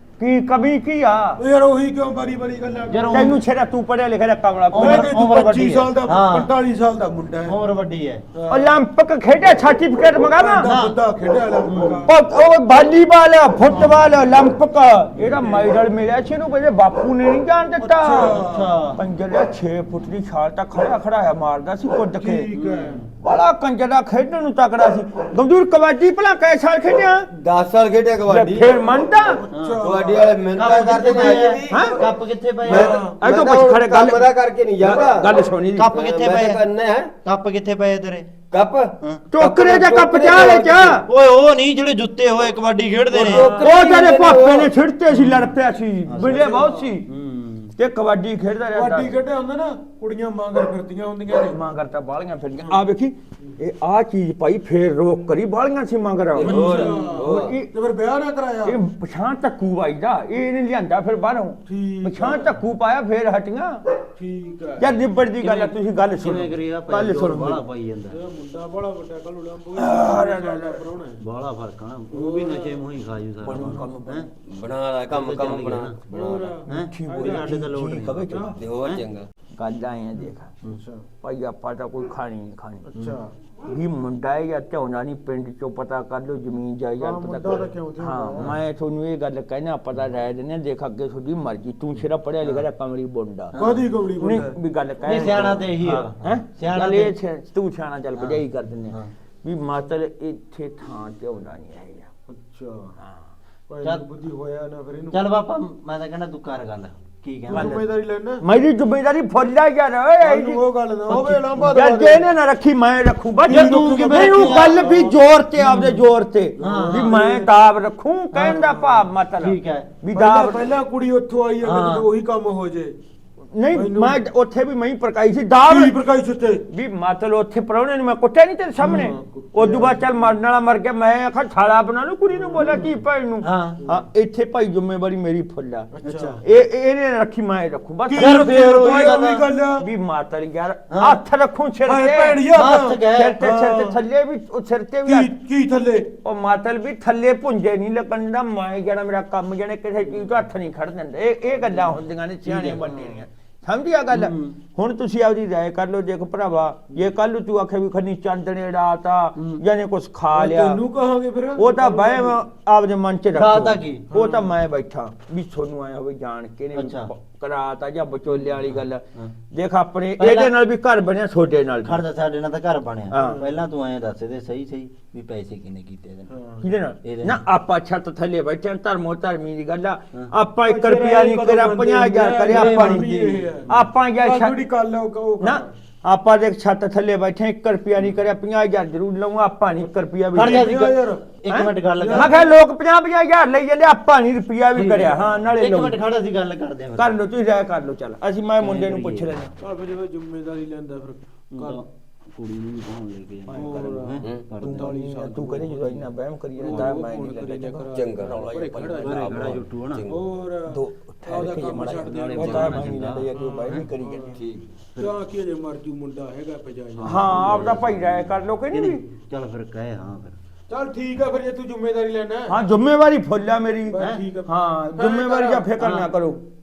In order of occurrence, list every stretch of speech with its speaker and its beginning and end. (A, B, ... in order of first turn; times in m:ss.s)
0:00.2-0:01.4 A
0:01.4-0:03.3 B
0:02.9-0:03.4 C
0:03.1-0:05.2 A
0:04.7-0:06.5 C
0:04.8-0:07.6 B
0:07.4-0:08.2 C
0:08.3-0:08.7 B
0:08.5-0:10.7 A
0:10.4-0:12.1 B
0:10.6-0:11.0 C
0:11.6-0:12.1 C
0:12.1-0:18.4 A
0:15.2-0:15.7 B
0:17.8-0:18.8 B
0:18.1-0:19.0 C
0:19.0-0:22.5 A
0:22.2-0:23.0 B
0:22.5-0:23.1 C
0:23.2-0:27.3 A
0:27.3-0:28.8 D
0:28.3-0:29.4 A
0:29.4-0:31.6 B
0:29.5-0:29.9 C
0:29.8-0:37.1 D
0:30.6-0:33.0 C
0:31.7-0:32.0 A
0:32.7-0:33.2 B
0:32.8-0:34.2 A
0:34.8-0:35.9 A
0:35.8-0:36.6 C
0:37.2-0:38.3 C
0:38.5-0:41.0 D
0:39.3-0:41.1 A
0:41.1-0:43.6 C
0:43.1-0:44.7 D
0:43.2-0:43.8 B
0:43.6-0:47.1 A
0:45.1-0:45.5 C
0:46.1-0:47.7 C
0:46.3-0:46.9 B
0:47.8-0:49.1 A
0:48.7-0:51.6 B
0:51.3-0:57.7 A
0:56.3-0:57.6 D
0:56.4-0:58.8 B
0:58.6-1:03.8 A
1:01.7-1:02.6 B
1:04.2-1:05.0 B
1:04.8-1:07.6 A
1:05.4-1:08.2 C
1:08.1-1:11.2 B
1:09.8-1:10.8 A
1:11.2-1:14.3 C
1:12.1-1:12.8 B
1:13.4-1:14.3 A
1:13.6-1:13.8 B
1:14.5-1:16.4 D
1:15.1-1:19.0 C
1:16.1-1:17.7 B
1:16.7-1:18.6 A
1:18.6-1:19.3 D
1:19.6-1:20.6 A
1:20.7-1:21.0 B
1:21.2-1:22.9 A
1:22.9-1:23.3 B
1:23.0-1:23.2 C
1:23.6-1:33.6 A
1:27.0-1:28.5 B
1:33.5-1:33.9 C
1:33.6-1:34.6 B
1:34.2-1:42.1 A
1:35.1-1:37.1 C
1:38.2-1:39.1 C
1:42.3-1:43.0 B
1:43.7-1:45.2 B
1:45.1-1:47.9 C
1:47.5-1:48.4 B
1:47.5-1:47.8 A
1:48.4-2:00.7 A
1:50.2-1:52.2 B
1:51.1-1:51.8 C
1:53.5-1:55.2 B
1:53.5-1:56.0 C
1:56.6-1:57.2 C
1:56.6-1:57.5 B
1:58.4-1:59.0 B
1:59.4-1:59.9 C
2:00.1-2:03.0 B
2:01.6-2:02.1 C
2:03.5-2:05.9 A
2:03.7-2:04.2 B
2:05.7-2:06.6 B
2:06.7-2:15.9 A
2:08.8-2:09.9 C
2:08.9-2:10.0 B
2:12.4-2:12.8 B
2:13.4-2:13.8 C
2:15.9-2:16.4 B
2:16.0-2:16.4 C
2:16.4-2:22.5 A
2:18.1-2:19.8 B
2:18.1-2:19.5 C
2:20.9-2:21.2 C
2:21.9-2:24.0 B
2:22.5-2:23.4 C
2:23.1-2:25.3 A
2:25.1-2:26.1 B
2:26.2-2:40.8 A
2:32.4-2:33.0 C
2:34.1-2:34.6 C
2:39.4-2:39.6 C
2:40.3-2:42.4 B
2:41.6-2:52.0 A
2:43.3-2:44.1 C
2:44.1-2:44.5 B
2:46.8-2:47.1 C
2:48.3-2:49.3 C
2:50.2-2:50.5 C
2:51.8-2:56.3 C
2:53.1-2:53.4 A
2:53.2-2:53.5 B
2:56.3-2:56.7 B
2:56.6-3:03.1 A
2:57.0-2:57.4 C
3:00.6-3:05.7 B
3:02.5-3:03.5 C
3:03.7-3:04.6 A
3:05.4-3:11.0 A
3:09.8-3:11.2 B
3:10.3-3:12.5 C
3:11.5-3:16.0 A
3:12.0-3:12.5 B
3:14.7-3:17.1 C
3:17.0-3:19.5 A
3:18.6-3:19.4 C
3:19.6-3:21.8 B
3:21.5-3:25.0 C
3:23.5-3:24.1 A
3:23.5-3:26.0 B
3:24.6-3:29.6 A
3:26.6-3:34.4 B
3:26.6-3:27.0 C
3:27.9-3:28.5 D
3:29.0-3:30.0 C
3:29.5-3:30.2 D
3:30.7-3:34.4 A
3:31.4-3:33.9 C
3:34.3-3:34.6 D
3:35.0-3:37.7 B
3:36.9-3:40.4 C
3:37.0-3:39.0 A
3:40.7-3:42.6 B
3:42.5-3:46.4 A
3:43.9-3:45.7 B
3:43.9-3:44.2 C
3:45.8-3:46.1 C